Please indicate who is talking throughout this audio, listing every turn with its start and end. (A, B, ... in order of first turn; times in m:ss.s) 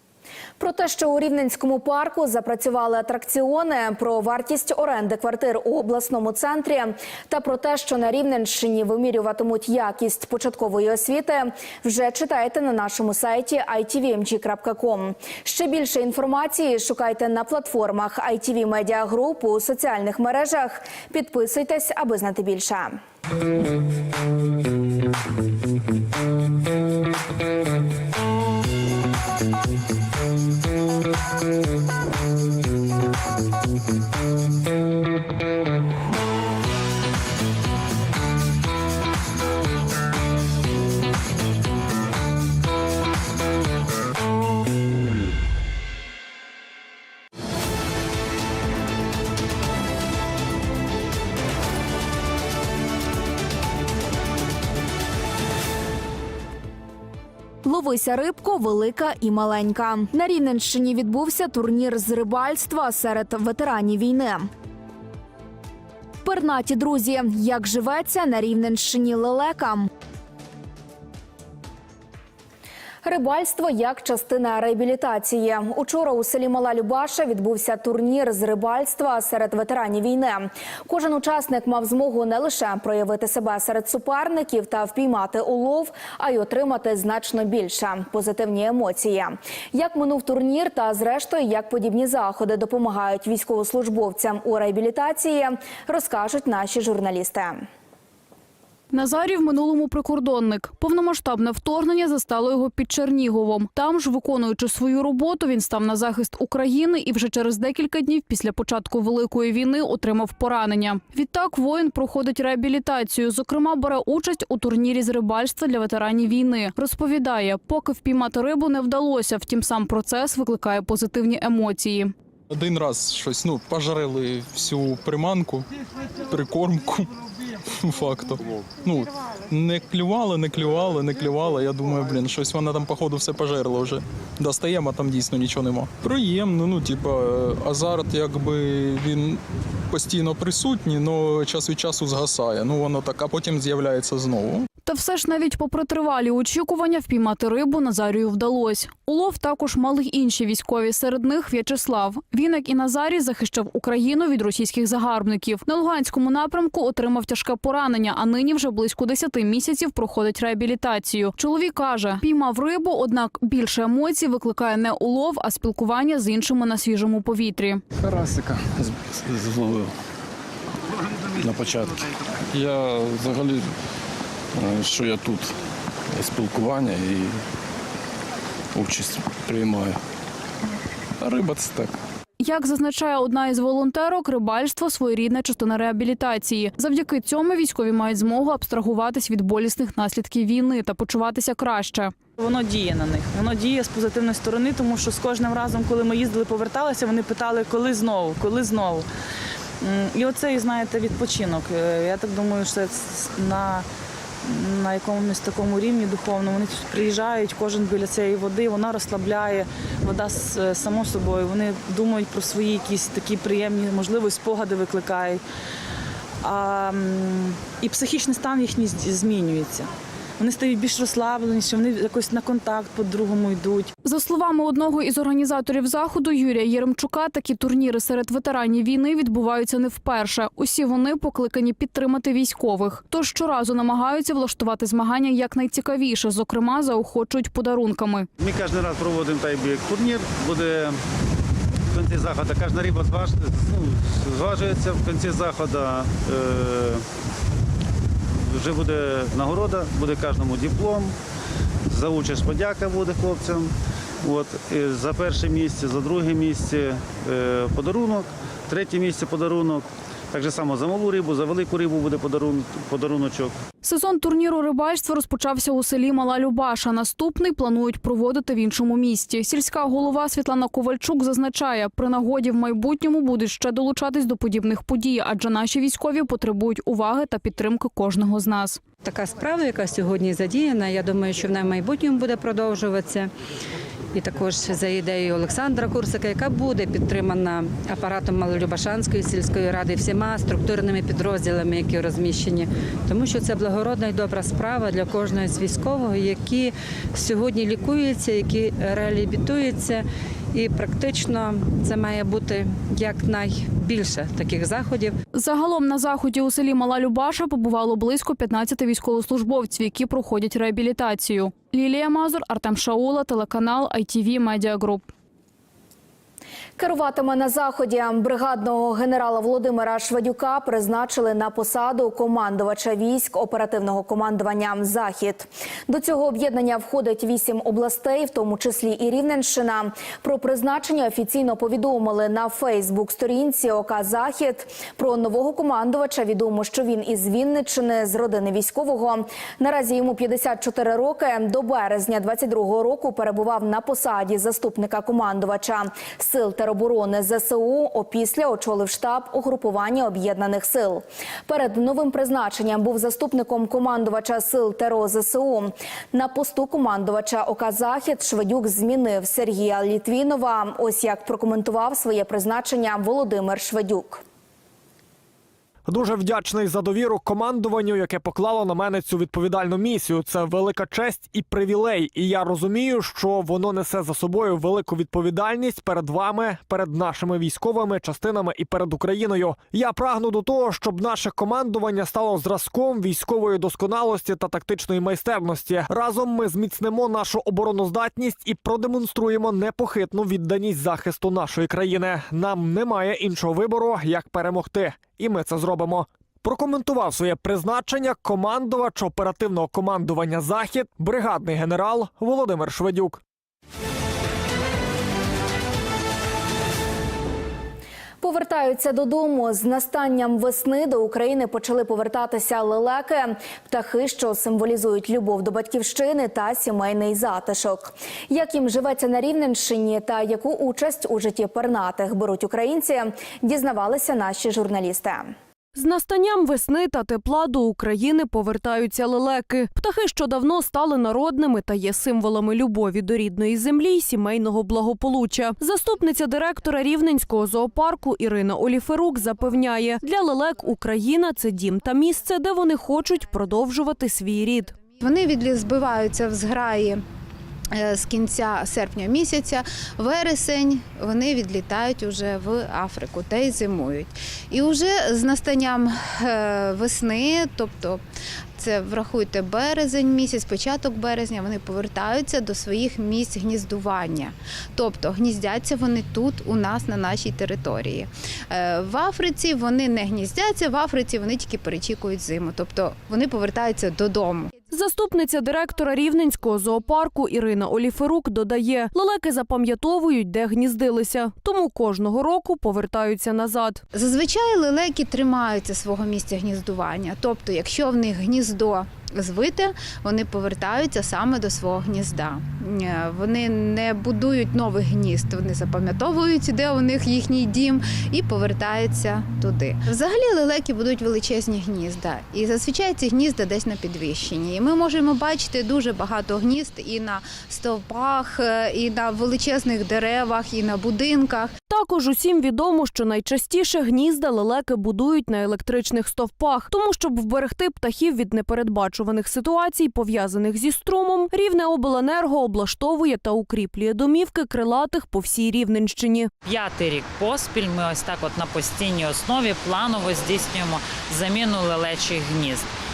0:00.6-0:23.0 A
0:57.6-1:04.5 A
1:06.2-1:09.9 A
1:13.0-1:37.7 A
1:38.9-2:02.1 B
2:02.5-2:05.6 C
2:06.3-2:07.1 C
2:07.8-2:24.7 C
2:24.8-2:47.8 B
2:48.0-2:49.9 D
2:51.4-2:53.7 D
2:54.6-2:55.6 D
2:56.1-2:57.4 D
2:58.7-3:00.0 D
3:01.2-3:02.0 D
3:02.4-3:12.1 B
3:12.4-3:19.1 E
3:19.8-3:23.9 E
3:24.4-3:35.4 E
3:36.4-3:43.9 E
3:44.0-3:58.3 B
3:58.4-4:01.0 F
4:01.9-4:07.0 F
4:08.5-4:11.1 F
4:11.9-4:13.7 F
4:14.2-4:23.5 F
4:23.8-4:38.8 B
4:39.0-4:43.3 G
4:44.1-5:05.2 G
5:05.3-5:15.1 B
5:16.8-6:04.2 A
6:05.9-6:43.2 H
6:48.2-7:05.3 A
7:05.8-7:24.8 I
7:24.9-7:27.0 J
7:27.7-7:38.0 J
7:38.6-7:54.6 J
7:54.7-8:03.8 I
8:03.9-8:31.5 J
8:31.7-8:46.3 I
8:46.4-8:52.7 K